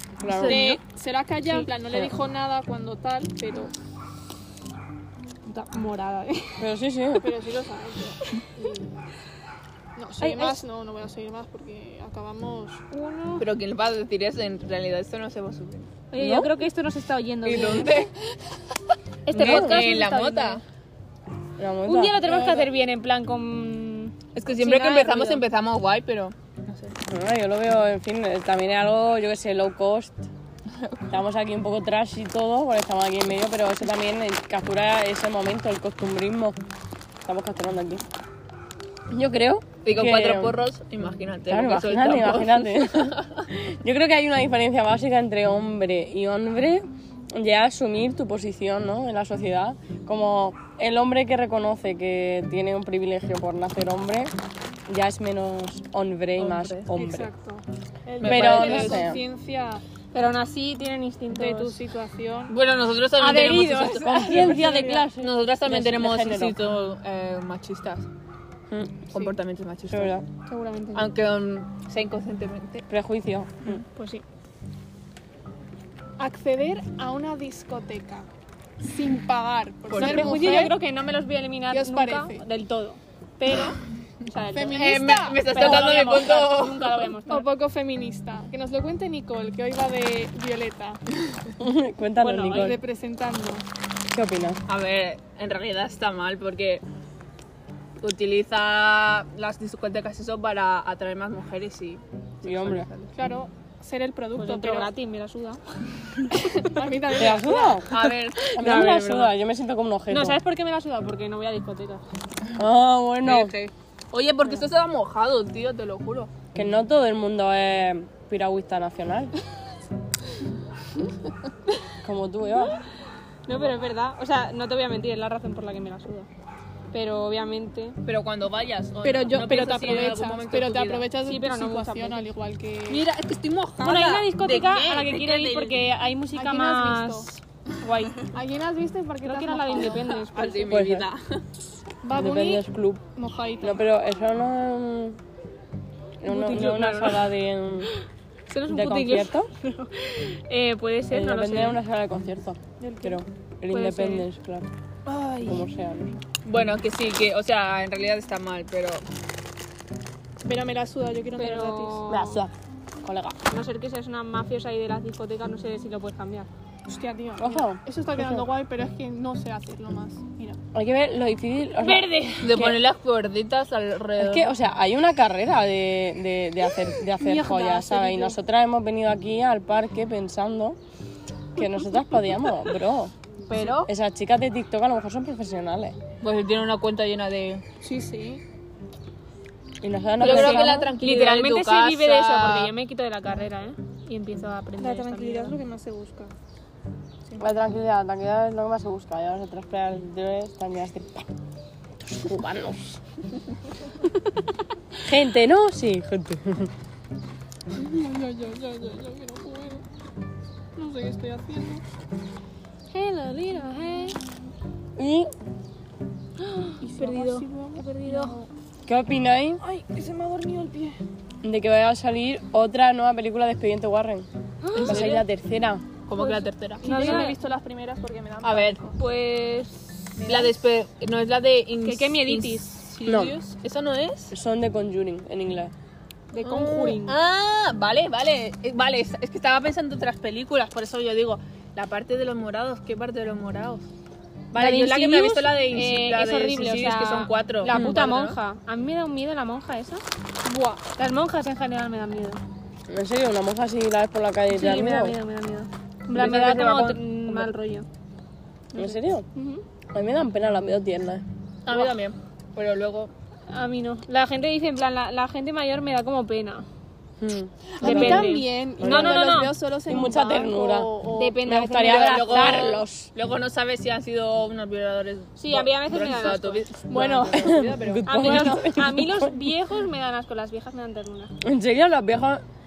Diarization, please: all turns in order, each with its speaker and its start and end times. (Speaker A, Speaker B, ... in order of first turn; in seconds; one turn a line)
Speaker A: 0.2-0.6
Speaker B: 0.2-0.8
Speaker C: 0.5-3.7
Speaker D: 5.5-6.7
Speaker A: 6.6-7.3
Speaker C: 7.2-9.1
Speaker C: 10.0-12.8
Speaker D: 10.2-10.6
Speaker D: 12.9-13.5
Speaker B: 13.4-15.9
Speaker D: 16.1-18.1
Speaker A: 16.2-16.5
Speaker B: 17.4-18.1
Speaker D: 19.3-20.6
Speaker B: 19.3-20.6
Speaker A: 19.4-19.8
Speaker A: 21.6-22.4
Speaker D: 21.9-25.4
Speaker C: 22.3-22.7
Speaker B: 24.4-26.9
Speaker A: 27.1-30.3
Speaker A: 31.1-36.6
Speaker A: 37.2-38.0
Speaker A: 39.1-40.6
Speaker B: 39.9-43.2
Speaker A: 41.5-54.3
Speaker A: 54.9-57.3
Speaker B: 56.4-56.9
Speaker C: 56.9-59.8
Speaker B: 58.2-59.0
Speaker A: 58.2-59.2
Speaker D: 60.1-61.8
Speaker C: 61.3-62.5
Speaker B: 62.5-64.2
Speaker D: 63.1-64.8
Speaker A: 63.9-66.6
Speaker C: 64.3-65.0
Speaker B: 65.2-68.1
Speaker A: 68.7-69.0
Speaker B: 69.1-70.2
Speaker A: 69.9-70.2
Speaker D: 70.5-71.1
Speaker B: 70.9-72.8
Speaker A: 72.9-73.8
Speaker C: 76.2-78.3
Speaker C: 78.8-80.8
Speaker B: 79.9-80.6
Speaker D: 79.9-87.5
Speaker C: 81.7-82.4
Speaker C: 84.5-86.3
Speaker B: 84.7-87.1
Speaker C: 87.3-91.0
Speaker A: 91.6-92.8
Speaker D: 92.2-92.8
Speaker C: 92.5-93.7
Speaker A: 94.1-94.6
Speaker B: 94.7-96.8
Speaker B: 98.0-103.1
Speaker A: 102.4-102.9
Speaker C: 103.2-104.9
Speaker D: 104.4-105.6
Speaker C: 106.5-107.9
Speaker A: 107.2-108.0
Speaker B: 107.9-109.0
Speaker A: 108.5-110.4
Speaker D: 108.6-109.3
Speaker D: 110.1-112.0
Speaker A: 112.6-113.5
Speaker B: 113.2-116.3
Speaker A: 116.5-119.3
Speaker A: 122.0-122.8
Speaker D: 123.5-126.3
Speaker D: 126.9-128.0
Speaker B: 128.1-131.1
Speaker C: 129.0-133.1
Speaker D: 131.2-132.3
Speaker B: 132.9-135.9
Speaker D: 133.8-138.2
Speaker C: 136.3-137.3
Speaker C: 138.3-140.4
Speaker D: 139.2-140.7
Speaker B: 139.8-141.4
Speaker A: 140.7-141.1
Speaker C: 142.0-143.8
Speaker A: 142.2-143.0
Speaker A: 143.6-145.2
Speaker A: 146.2-147.9
Speaker D: 146.3-147.3
Speaker D: 148.5-151.8
Speaker A: 148.7-149.5
Speaker A: 151.1-154.7
Speaker C: 152.8-153.2
Speaker D: 153.7-154.3
Speaker C: 155.1-155.6
Speaker A: 155.4-156.2
Speaker B: 156.4-159.0
Speaker C: 160.4-162.1
Speaker D: 161.4-162.4
Speaker A: 162.1-163.4
Speaker D: 163.5-166.5
Speaker C: 166.9-170.6
Speaker A: 167.4-168.5
Speaker A: 170.7-172.9
Speaker D: 171.8-172.7
Speaker B: 172.4-174.5
Speaker A: 174.2-180.8
Speaker C: 177.2-178.4
Speaker A: 181.6-183.1
Speaker B: 183.5-183.9
Speaker A: 183.8-186.0
Speaker B: 186.2-187.6
Speaker C: 187.8-188.4
Speaker A: 189.8-190.9
Speaker B: 190.2-192.7
Speaker D: 190.2-195.6
Speaker C: 194.8-196.3
Speaker A: 197.4-201.3
Speaker A: 202.0-203.0
Speaker A: 205.0-206.7
Speaker C: 207.8-209.8
Speaker C: 210.8-211.8
Speaker D: 212.9-214.2
Speaker A: 215.0-215.3
Speaker D: 216.4-218.4
Speaker C: 216.8-218.5
Speaker A: 218.9-219.6
Speaker C: 219.6-221.0
Speaker A: 221.4-225.8
Speaker D: 224.6-225.2
Speaker B: 224.8-225.2
Speaker B: 226.1-227.2
Speaker C: 226.2-229.0
Speaker D: 226.8-227.4
Speaker B: 228.4-228.8
Speaker D: 229.0-230.5
Speaker C: 230.2-230.6
Speaker B: 230.3-234.3
Speaker D: 231.8-232.8
Speaker A: 233.1-233.3
Speaker A: 234.3-235.7
Speaker D: 236.3-237.2
Speaker B: 236.4-243.8
Speaker B: 244.5-248.4
Speaker D: 244.5-250.0
Speaker C: 250.4-250.8
Speaker D: 251.0-252.4
Speaker A: 252.9-255.2
Speaker D: 254.5-257.9
Speaker B: 256.1-257.5
Speaker D: 258.7-259.6
Speaker A: 258.8-259.3
Speaker A: 259.9-261.2
Speaker B: 261.7-263.1
Speaker D: 263.5-266.7
Speaker A: 267.2-269.3
Speaker B: 267.8-268.3
Speaker C: 267.8-271.4
Speaker D: 267.8-269.6
Speaker A: 269.9-273.1
Speaker D: 271.1-272.8
Speaker B: 271.6-278.1
Speaker D: 275.4-277.1
Speaker C: 276.9-277.5
Speaker A: 277.4-279.4
Speaker D: 278.1-281.3
Speaker A: 281.4-282.4